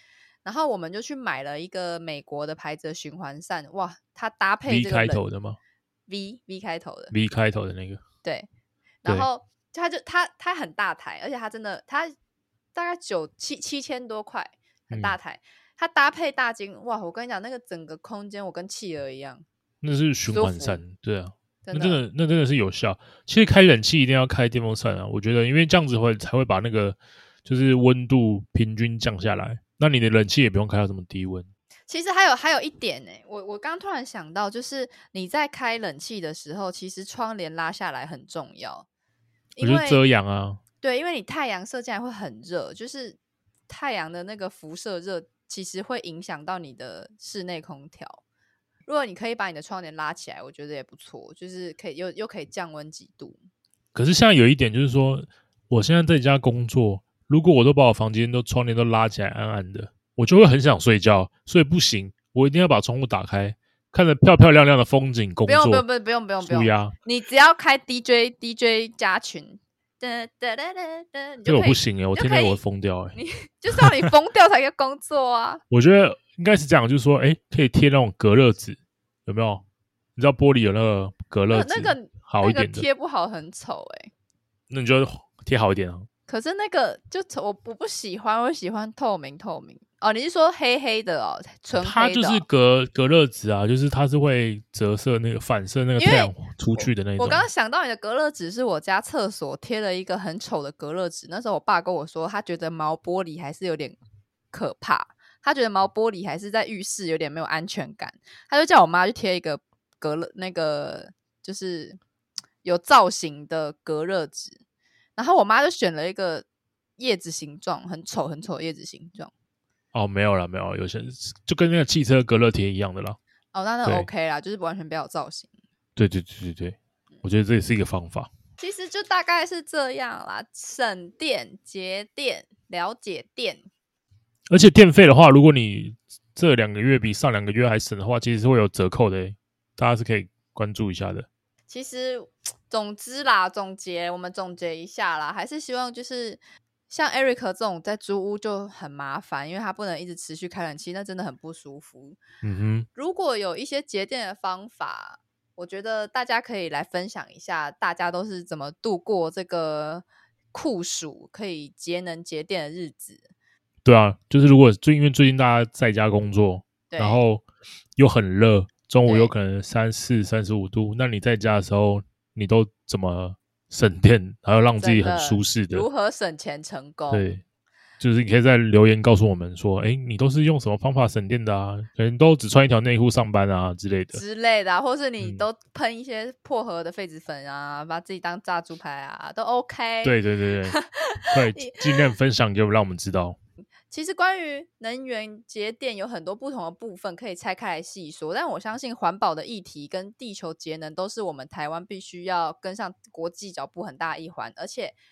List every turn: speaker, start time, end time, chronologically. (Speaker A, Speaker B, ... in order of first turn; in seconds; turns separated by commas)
Speaker A: 0.4-5.2, Speaker B: 4.7-5.6, Speaker A: 6.1-7.1, Speaker B: 7.1-8.0, Speaker A: 9.0-12.1, Speaker A: 12.7-19.4, Speaker B: 14.9-15.2, Speaker B: 19.8-31.5, Speaker A: 20.3-20.8, Speaker A: 21.6-22.0, Speaker A: 31.9-38.9, Speaker A: 39.5-40.0, Speaker B: 39.6-40.6, Speaker A: 40.8-43.2, Speaker A: 43.7-48.2, Speaker A: 48.9-53.4, Speaker B: 53.9-65.8, Speaker A: 65.5-72.6, Speaker B: 66.4-66.9, Speaker B: 71.5-73.2, Speaker A: 73.1-75.6, Speaker B: 75.7-79.6, Speaker B: 80.2-82.8, Speaker A: 81.5-84.1, Speaker B: 84.7-86.1, Speaker A: 86.3-92.4, Speaker B: 91.7-97.5, Speaker A: 96.0-96.3, Speaker A: 97.2-104.0, Speaker A: 104.5-112.0, Speaker A: 112.6-114.6, Speaker A: 115.2-116.5, Speaker A: 117.0-119.3, Speaker B: 119.9-123.2, Speaker A: 123.5-125.5, Speaker B: 126.0-128.3, Speaker A: 128.6-133.6, Speaker B: 134.5-141.3, Speaker A: 141.7-152.2, Speaker B: 152.4-152.9, Speaker A: 152.9-163.3, Speaker B: 163.8-167.4, Speaker A: 166.9-167.2, Speaker B: 168.0-175.9, Speaker A: 169.1-169.3, Speaker A: 174.8-177.2, Speaker B: 177.1-177.4, Speaker B: 178.0-184.2, Speaker A: 184.1-191.8, Speaker B: 190.0-190.8, Speaker B: 191.3-193.4, Speaker A: 193.9-204.9